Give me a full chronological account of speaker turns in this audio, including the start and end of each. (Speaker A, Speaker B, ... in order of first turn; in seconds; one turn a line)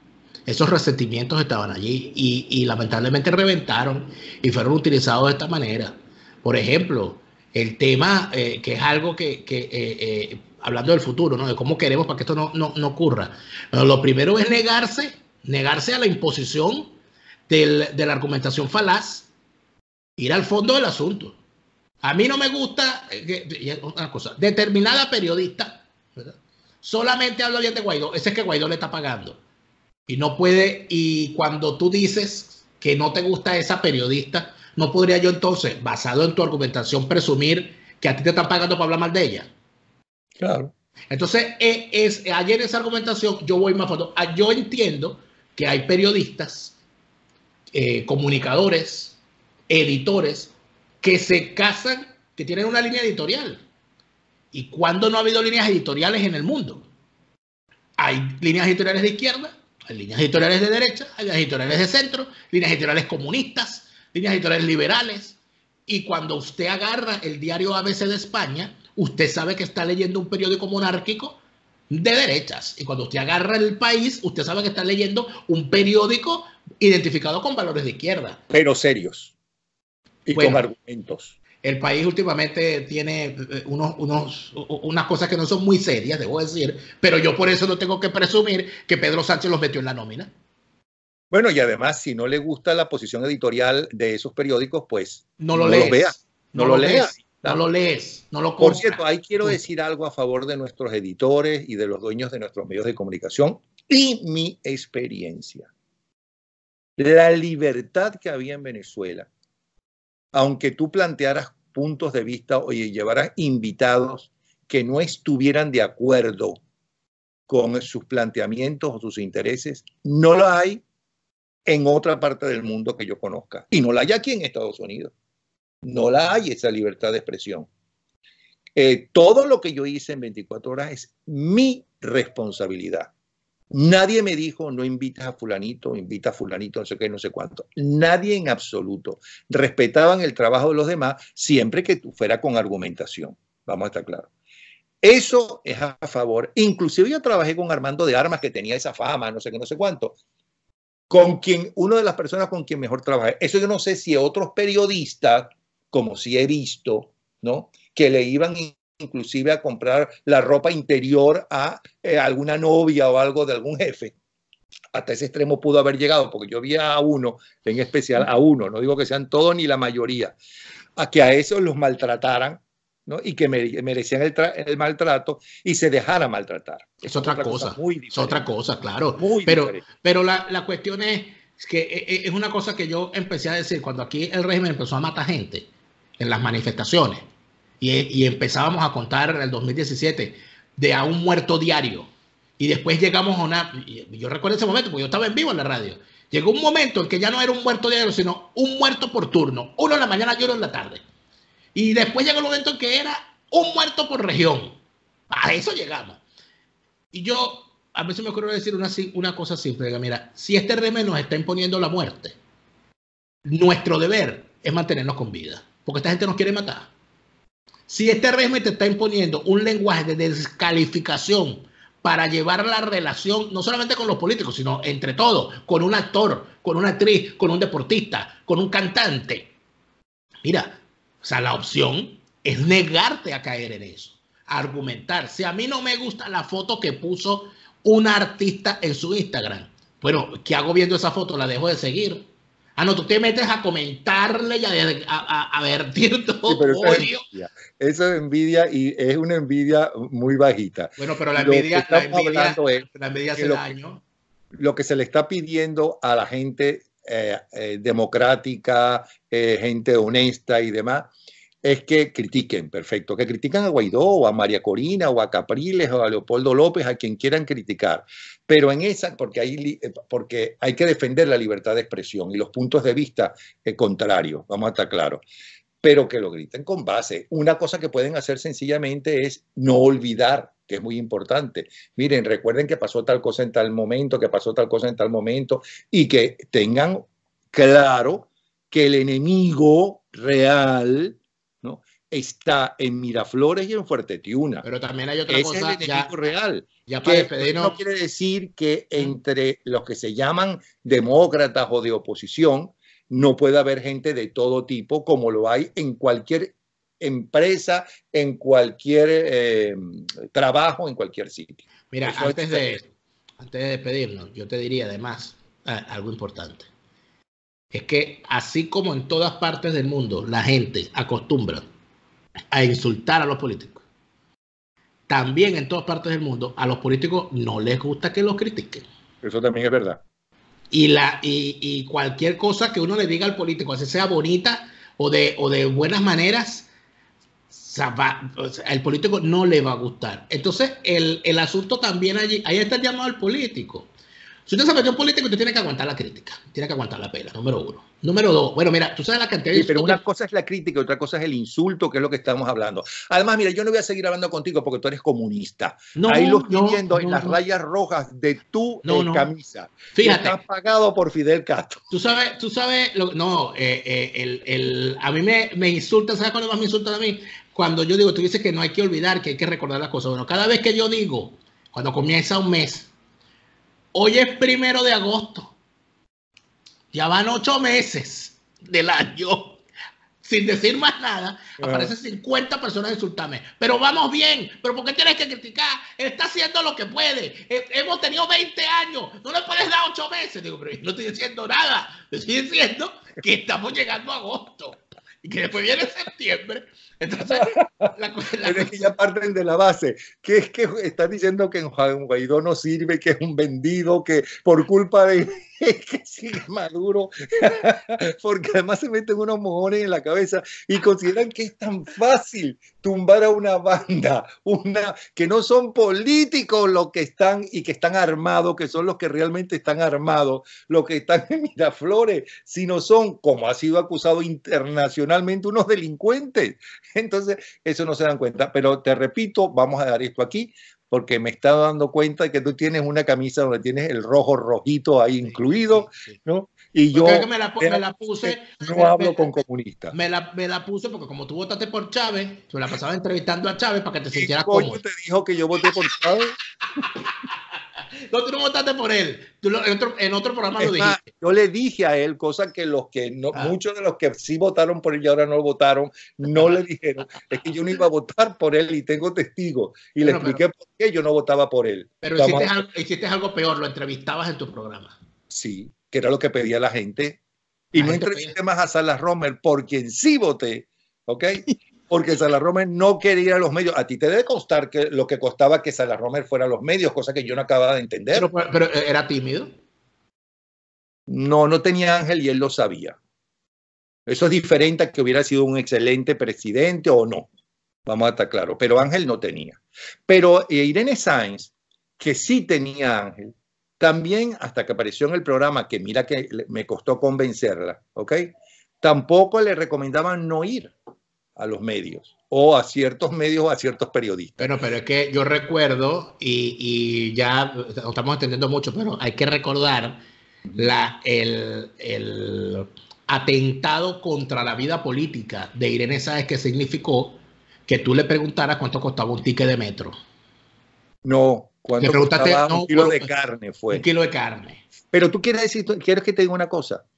Speaker A: 0.5-16.9
Speaker A: 17.5-19.3
Speaker A: 20.2-21.4
Speaker A: 22.0-29.4
Speaker A: 30.1-39.5
Speaker B: 40.4-40.7
Speaker A: 41.1-46.8
Speaker A: 47.7-49.2
Speaker A: 49.7-53.6
Speaker A: 54.5-56.9
Speaker A: 58.0-71.4
Speaker A: 71.9-78.4
Speaker B: 78.5-79.3
Speaker B: 80.2-81.3
Speaker A: 80.3-80.6
Speaker A: 81.6-90.3
Speaker B: 91.3-97.6
Speaker A: 95.4-99.6
Speaker B: 98.6-105.7
Speaker B: 107.0-109.3
Speaker B: 110.3-116.6
Speaker B: 117.5-120.8
Speaker B: 121.7-125.1
Speaker B: 125.8-127.7
Speaker B: 128.8-133.1
Speaker B: 133.7-144.3
Speaker B: 145.0-150.2
Speaker B: 151.1-164.1
Speaker B: 164.9-170.3
Speaker B: 171.0-178.4
Speaker A: 177.0-185.7
Speaker B: 179.2-179.8
Speaker A: 186.2-187.2
Speaker A: 187.8-201.0
Speaker A: 201.7-204.8
Speaker A: 205.3-206.2
Speaker A: 207.1-212.3
Speaker A: 213.4-216.9
Speaker A: 217.9-229.5
Speaker A: 230.4-242.2
Speaker A: 242.8-247.2
Speaker B: 246.4-253.7
Speaker A: 251.0-254.0
Speaker B: 254.5-261.1
Speaker B: 261.6-275.2
Speaker B: 275.8-294.6
Speaker A: 294.6-296.1
Speaker B: 295.3-312.8
Speaker A: 296.9-297.8
Speaker A: 311.9-312.9
Speaker A: 313.4-316.7
Speaker A: 317.7-321.6
Speaker A: 322.5-323.8
Speaker A: 325.1-328.8
Speaker B: 329.2-330.0
Speaker A: 330.7-336.7
Speaker A: 337.5-343.9
Speaker A: 344.4-350.0
Speaker B: 349.5-361.8
Speaker A: 355.9-357.4
Speaker A: 358.8-359.3
Speaker A: 359.9-360.4
Speaker A: 361.9-372.9
Speaker A: 373.9-375.5
Speaker A: 376.9-379.6
Speaker A: 380.2-398.9
Speaker B: 381.6-381.9
Speaker B: 397.3-397.9
Speaker B: 398.4-439.9
Speaker A: 435.2-436.2
Speaker A: 436.9-439.3
Speaker A: 439.9-444.8
Speaker B: 444.1-446.4
Speaker A: 447.5-451.0
Speaker B: 450.6-462.5
Speaker A: 460.0-460.4
Speaker A: 462.0-465.0
Speaker B: 465.3-467.2
Speaker B: 467.7-478.3
Speaker A: 467.8-468.3
Speaker A: 478.1-479.5
Speaker B: 481.1-483.0
Speaker B: 484.1-487.3
Speaker B: 487.9-500.7
Speaker B: 501.4-504.5
Speaker A: 504.4-510.0
Speaker A: 510.6-520.0
Speaker B: 521.0-523.8
Speaker A: 521.8-523.1
Speaker A: 523.7-524.6
Speaker B: 524.9-526.8